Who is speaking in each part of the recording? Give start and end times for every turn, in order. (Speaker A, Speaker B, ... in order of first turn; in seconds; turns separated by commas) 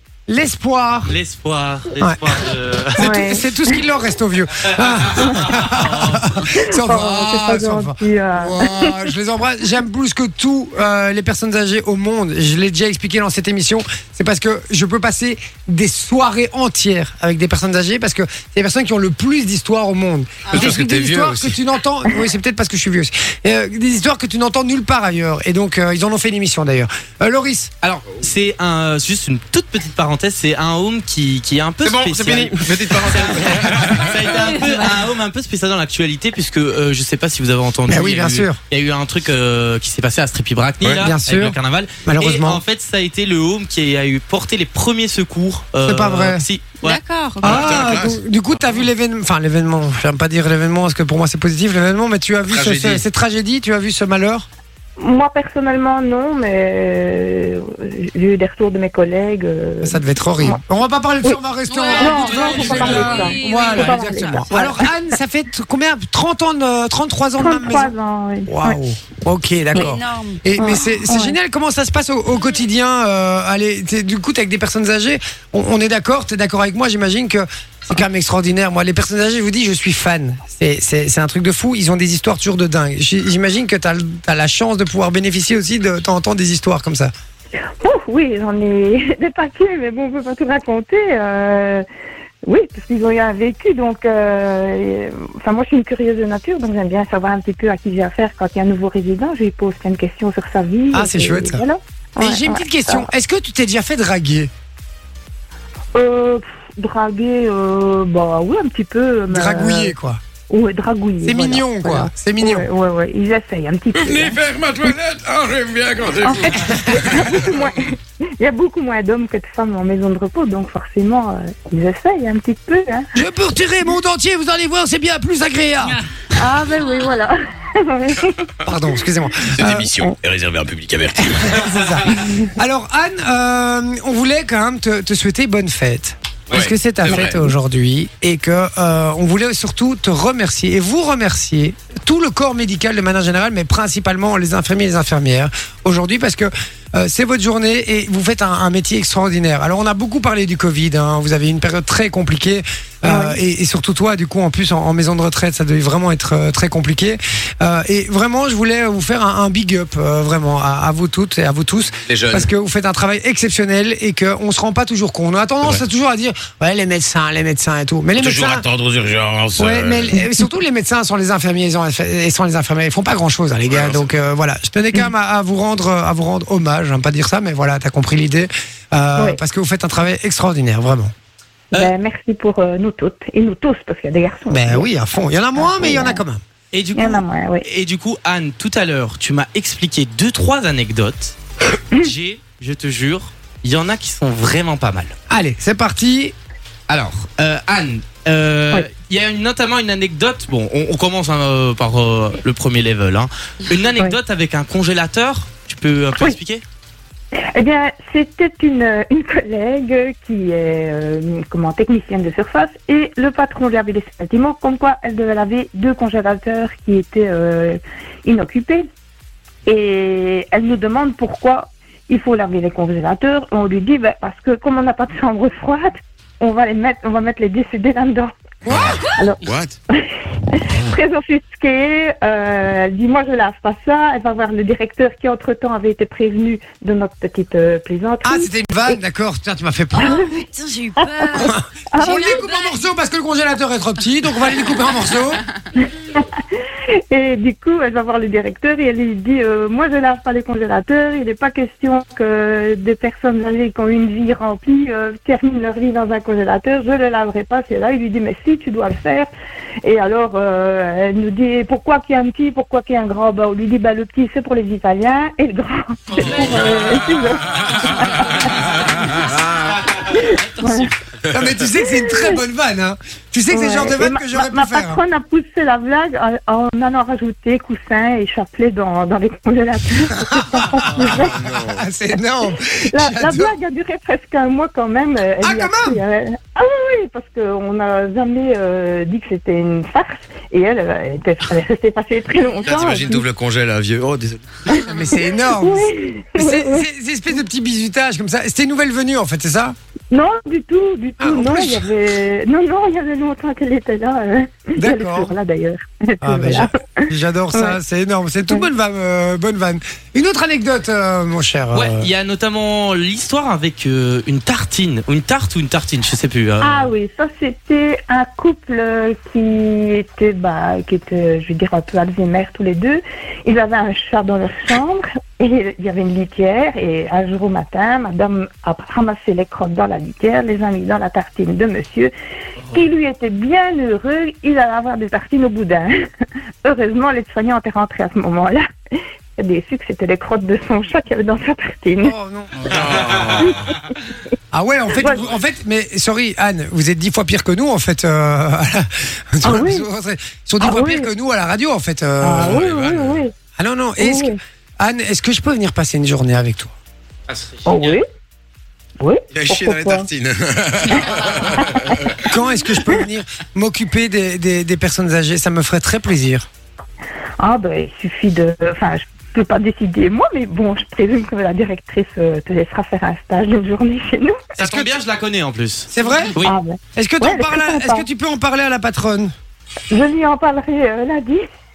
Speaker A: 0.3-1.1, Speaker B: 1.1-3.1, Speaker A: 2.0-2.2, Speaker C: 3.0-3.8, Speaker A: 3.0-27.7, Speaker B: 4.8-6.5, Speaker C: 5.2-5.5, Speaker C: 6.5-9.0, Speaker D: 20.5-21.6, Speaker B: 27.8-47.0, Speaker D: 31.8-34.2, Speaker E: 34.2-35.0, Speaker A: 37.9-38.6, Speaker A: 41.0-42.6, Speaker A: 45.8-46.5, Speaker E: 46.8-47.6, Speaker D: 47.4-48.2, Speaker A: 47.4-54.5, Speaker D: 52.5-53.0, Speaker C: 55.0-60.6, Speaker A: 59.8-67.9, Speaker C: 61.2-64.9, Speaker E: 61.7-64.8, Speaker C: 67.4-68.8, Speaker A: 68.5-87.1, Speaker E: 69.8-70.4, Speaker C: 70.6-71.4, Speaker C: 87.8-91.8, Speaker C: 92.4-103.1, Speaker A: 100.9-101.6, Speaker A: 102.2-104.5, Speaker C: 105.9-110.0, Speaker A: 109.3-110.2, Speaker C: 110.5-114.4, Speaker A: 111.2-112.7, Speaker D: 113.9-117.5, Speaker C: 116.2-123.1, Speaker A: 116.7-117.1, Speaker A: 123.2-126.0, Speaker C: 126.3-128.4, Speaker A: 128.6-129.9, Speaker D: 129.5-131.8, Speaker A: 131.2-168.7, Speaker C: 132.2-132.5, Speaker D: 136.5-137.4, Speaker C: 153.1-153.4, Speaker D: 162.1-162.5, Speaker D: 168.2-170.2, Speaker A: 169.6-181.1, Speaker D: 173.7-174.1, Speaker C: 181.7-184.9, Speaker A: 184.5-186.4, Speaker C: 185.5-186.2, Speaker B: 186.7-191.4, Speaker C: 187.0-187.7, Speaker B: 191.9-195.1, Speaker A: 195.3-196.3, Speaker B: 196.9-206.6, Speaker C: 207.3-218.8, Speaker C: 219.7-228.3, Speaker A: 228.7-229.0, Speaker D: 228.7-229.8, Speaker C: 229.1-239.0, Speaker A: 238.2-240.2, Speaker C: 239.9-240.4, Speaker E: 240.2-242.9, Speaker C: 241.0-242.4, Speaker A: 241.3-245.4, Speaker C: 245.8-259.3, Speaker C: 259.8-269.2, Speaker B: 266.1-267.2, Speaker C: 270.0-270.9, Speaker B: 270.3-270.8, Speaker A: 271.2-275.0, Speaker C: 271.8-272.4, Speaker C: 273.5-281.4, Speaker A: 280.3-283.5, Speaker D: 280.9-281.8, Speaker C: 282.9-293.3, Speaker A: 285.4-286.0, Speaker D: 292.6-294.5, Speaker C: 294.7-296.9, Speaker A: 294.7-299.8, Speaker C: 300.1-307.8, Speaker A: 301.2-301.9, Speaker A: 304.8-305.3, Speaker A: 306.2-312.1, Speaker B: 311.7-316.9, Speaker C: 316.6-332.1, Speaker C: 332.7-335.9, Speaker C: 336.6-338.6, Speaker C: 339.4-342.1, Speaker A: 342.0-343.0, Speaker B: 342.6-343.3, Speaker D: 342.6-343.7, Speaker C: 343.4-343.7, Speaker A: 344.5-352.6, Speaker C: 344.9-345.2, Speaker C: 349.4-349.9, Speaker C: 350.6-351.1, Speaker C: 352.2-353.3, Speaker D: 352.4-353.2, Speaker A: 353.6-356.7, Speaker C: 354.0-354.4, Speaker B: 357.3-358.0, Speaker C: 357.7-358.0, Speaker C: 359.0-360.1, Speaker D: 359.3-362.2, Speaker C: 360.9-361.9, Speaker A: 362.2-366.5, Speaker C: 367.4-374.4, Speaker B: 374.6-376.6, Speaker A: 374.6-374.9, Speaker A: 375.9-376.4, Speaker C: 376.4-378.1, Speaker A: 377.0-379.3, Speaker C: 379.9-381.4